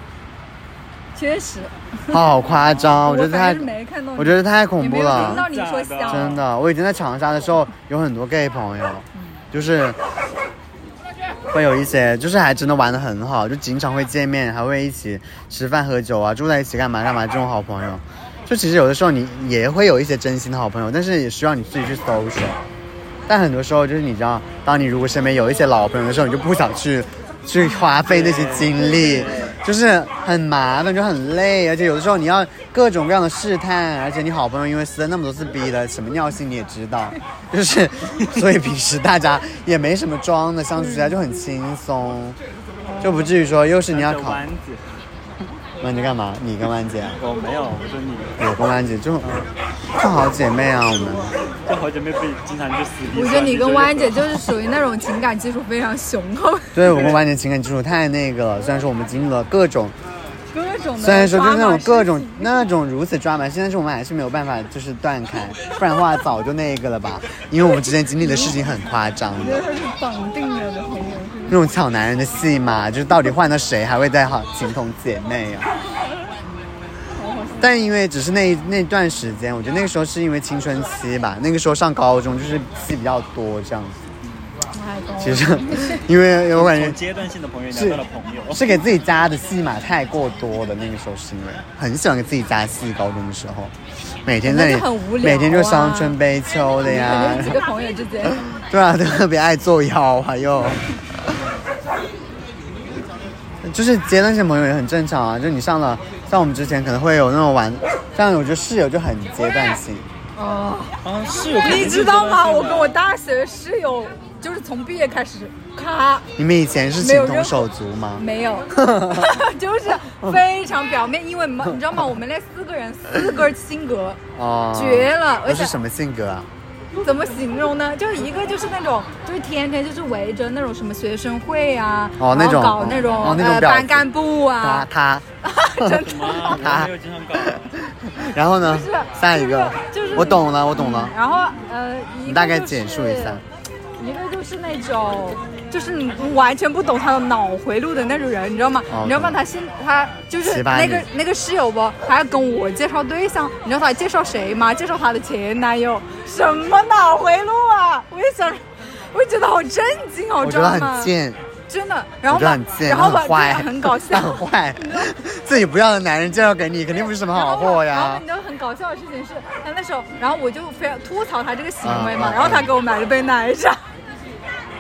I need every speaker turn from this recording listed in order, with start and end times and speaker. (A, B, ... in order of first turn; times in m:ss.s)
0:01.1-0:02.2 A
0:02.1-0:05.4 B
0:02.4-0:03.0 C
0:03.0-0:06.4 A
0:05.1-0:06.4 C
0:06.1-0:10.0 B
0:11.5-0:22.6 B
0:23.3-0:42.4 B
0:28.0-0:29.6 C
0:40.8-0:41.1 A
0:43.0-0:43.3 C
0:43.0-0:44.4 B
0:43.9-0:45.0 C
0:45.8-0:47.2 B
0:47.2-0:48.4 C
0:48.4-0:49.3 B
0:49.2-0:49.5 C
0:49.9-0:51.4 B
0:51.6-0:54.5 C
0:53.1-0:56.9 A
0:56.7-0:59.9 B
0:56.9-0:57.2 C
1:00.5-1:02.7 A
1:01.0-1:09.6 B
1:08.2-1:08.6 A
1:09.4-1:11.6 A
1:11.5-1:15.7 B
1:17.1-1:17.8 A
1:17.6-1:24.0 B
1:24.7-1:26.0 A
1:25.2-1:27.0 B
1:26.5-1:28.6 C
1:27.7-1:33.7 B
1:34.2-1:37.6 B
1:34.4-1:36.2 A
1:36.8-1:38.4 A
1:38.3-1:40.8 B
1:43.6-1:50.1 B
1:50.4-1:51.0 A
1:51.0-1:53.0 C
1:51.6-1:56.2 A
1:56.4-1:59.4 B
1:57.0-1:57.6 A
1:58.2-2:04.2 A
2:00.1-2:00.4 B
2:01.6-2:02.0 B
2:04.3-2:06.5 B
2:04.7-2:05.8 A
2:07.0-2:14.9 A
2:12.2-2:14.1 B
2:14.6-2:15.2 B
2:15.4-2:16.5 A
2:15.8-2:21.2 B
2:16.0-2:17.7 C
2:18.6-2:23.4 A
2:22.2-2:23.4 B
2:24.0-2:41.1 A
2:28.9-2:29.4 B
2:30.4-2:31.0 B
2:40.4-2:41.4 B
2:41.7-2:45.1 A
2:42.3-2:48.2 B
2:47.3-2:53.8 A
2:51.8-2:52.7 B